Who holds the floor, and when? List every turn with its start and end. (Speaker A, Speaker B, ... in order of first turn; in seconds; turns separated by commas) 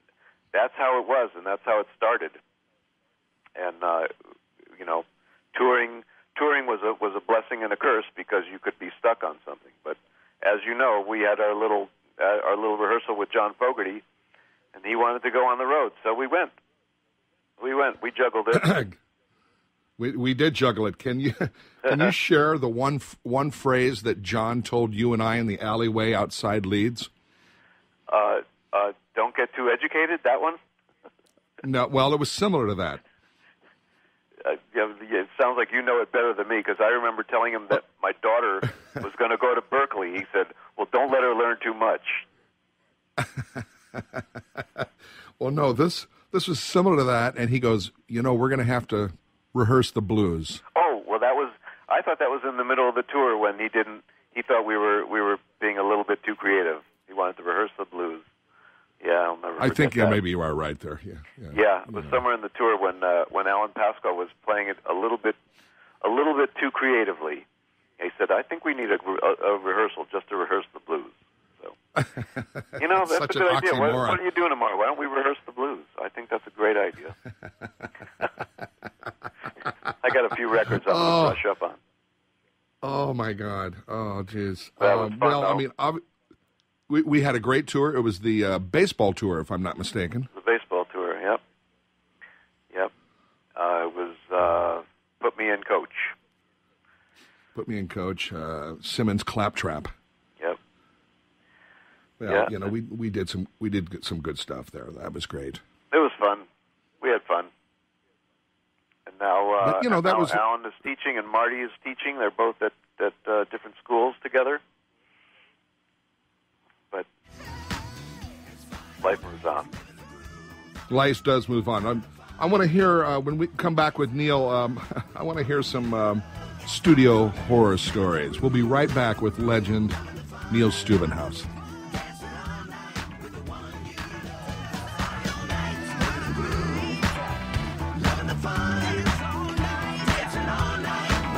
Speaker A: 0.5-2.4, Speaker A: 3.6-4.1, Speaker A: 4.8-14.0, Speaker A: 14.7-16.5, Speaker A: 17.6-18.8, Speaker B: 18.5-18.9, Speaker B: 20.0-27.1, Speaker A: 28.1-30.6, Speaker B: 31.6-33.0, Speaker A: 34.4-42.2, Speaker B: 43.2-44.9, Speaker B: 45.4-50.6, Speaker A: 50.7-58.2, Speaker A: 59.0-60.2, Speaker B: 59.6-62.2, Speaker A: 61.5-65.4, Speaker A: 66.0-67.4, Speaker A: 68.0-71.8, Speaker B: 72.0-74.2, Speaker A: 72.8-77.1, Speaker A: 80.0-81.8, Speaker B: 80.7-81.4, Speaker B: 82.8-86.0, Speaker A: 84.8-85.6, Speaker B: 86.9-90.3, Speaker A: 90.3-91.4, Speaker A: 93.5-96.1, Speaker B: 97.5-99.9, Speaker B: 102.2-105.6, Speaker A: 102.3-102.5, Speaker A: 105.9-106.5, Speaker A: 107.0-107.5, Speaker A: 109.0-114.6, Speaker B: 109.6-110.4, Speaker A: 119.0-119.7, Speaker B: 120.9-129.9, Speaker B: 130.5-131.5